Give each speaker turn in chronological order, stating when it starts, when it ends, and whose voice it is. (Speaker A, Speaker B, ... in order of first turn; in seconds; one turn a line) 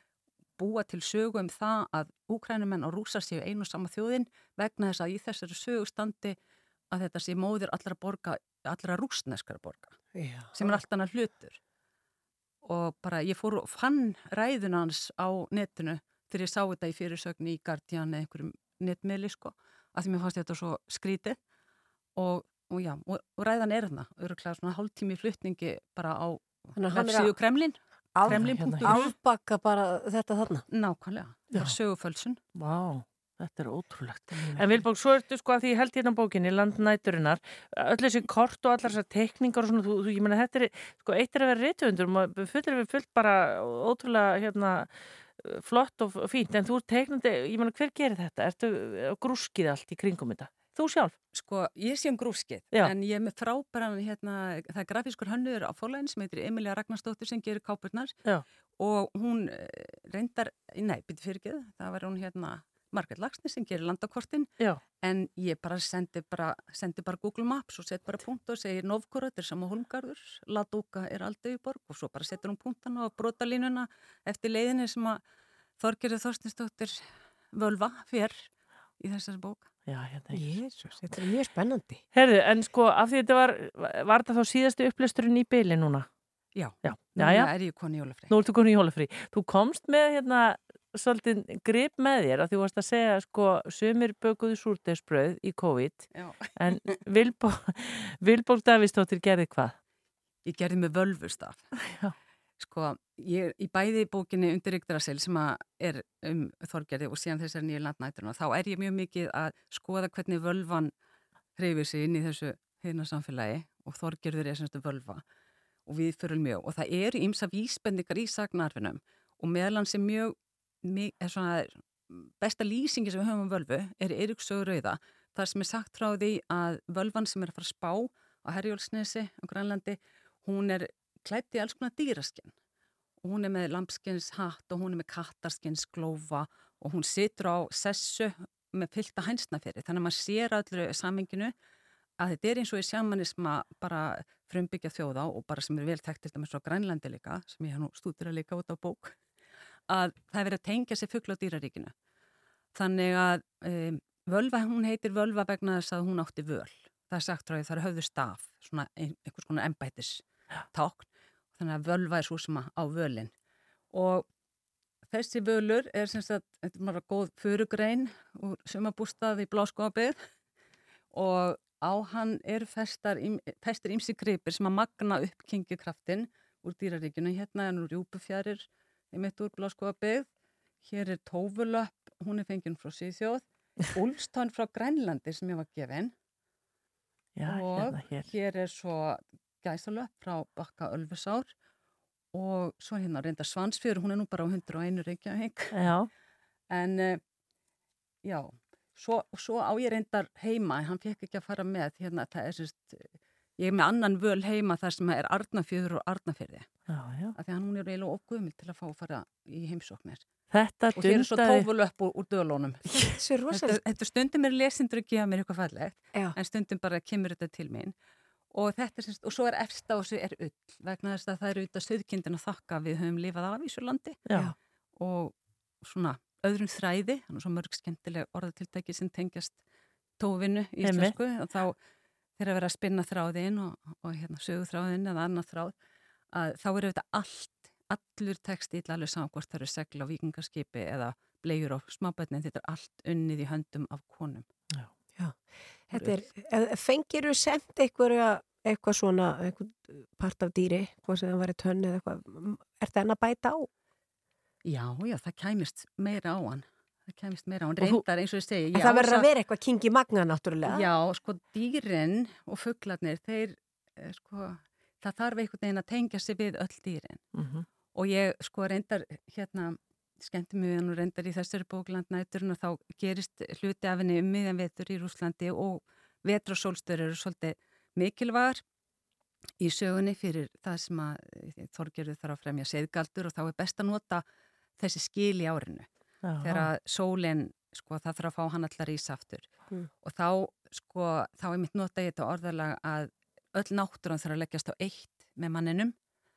Speaker A: 0.6-6.4
Speaker A: 6.9-10.0
Speaker B: 10.1-10.8
Speaker A: 10.5-11.6
Speaker A: 12.6-21.4
Speaker A: 22.2-29.1
Speaker B: 26.8-27.4
Speaker B: 28.1-30.6
Speaker C: 28.3-29.0
Speaker A: 30.7-32.4
Speaker C: 32.6-44.9
Speaker B: 34.4-34.7
Speaker C: 45.4-51.1
Speaker A: 51.3-58.2
Speaker A: 58.8-75.2
Speaker A: 75.8-77.0
Speaker A: 77.5-78.5
Speaker A: 79.0-79.7
Speaker C: 79.9-80.4
Speaker B: 80.3-82.0
Speaker C: 82.1-86.1
Speaker A: 86.5-88.4
Speaker C: 86.8-87.5
Speaker C: 88.3-99.7
Speaker A: 96.1-97.0
Speaker A: 100.5-101.7
Speaker C: 101.9-102.1
Speaker A: 102.6-110.9
Speaker A: 111.6-115.2
Speaker A: 115.9-132.5
Speaker A: 133.2-141.5
Speaker A: 142.2-149.2
Speaker A: 149.9-151.9
Speaker A: 152.7-163.3
Speaker A: 163.9-164.3
Speaker A: 165.1-170.2
Speaker A: 171.1-180.3
Speaker A: 180.8-186.1
Speaker C: 187.4-188.3
Speaker A: 187.4-191.5
Speaker A: 192.3-195.8
Speaker C: 195.7-196.1
Speaker A: 196.7-197.2
Speaker A: 198.2-206.7
Speaker C: 206.9-207.3
Speaker A: 207.3-210.2
Speaker C: 210.5-211.7
Speaker A: 210.9-217.9
Speaker B: 212.9-213.8
Speaker A: 218.5-224.2
Speaker A: 225.0-229.6
Speaker A: 230.2-231.8
Speaker C: 230.8-231.1
Speaker A: 232.4-235.7
Speaker A: 236.3-244.5
Speaker B: 245.9-253.7
Speaker A: 254.6-259.3
Speaker B: 258.7-260.9
Speaker A: 260.7-267.2
Speaker C: 267.4-267.6
Speaker A: 267.9-278.6
Speaker A: 279.6-284.2
Speaker A: 284.8-285.9
Speaker C: 286.2-286.7
Speaker A: 286.4-289.5
Speaker A: 290.0-295.9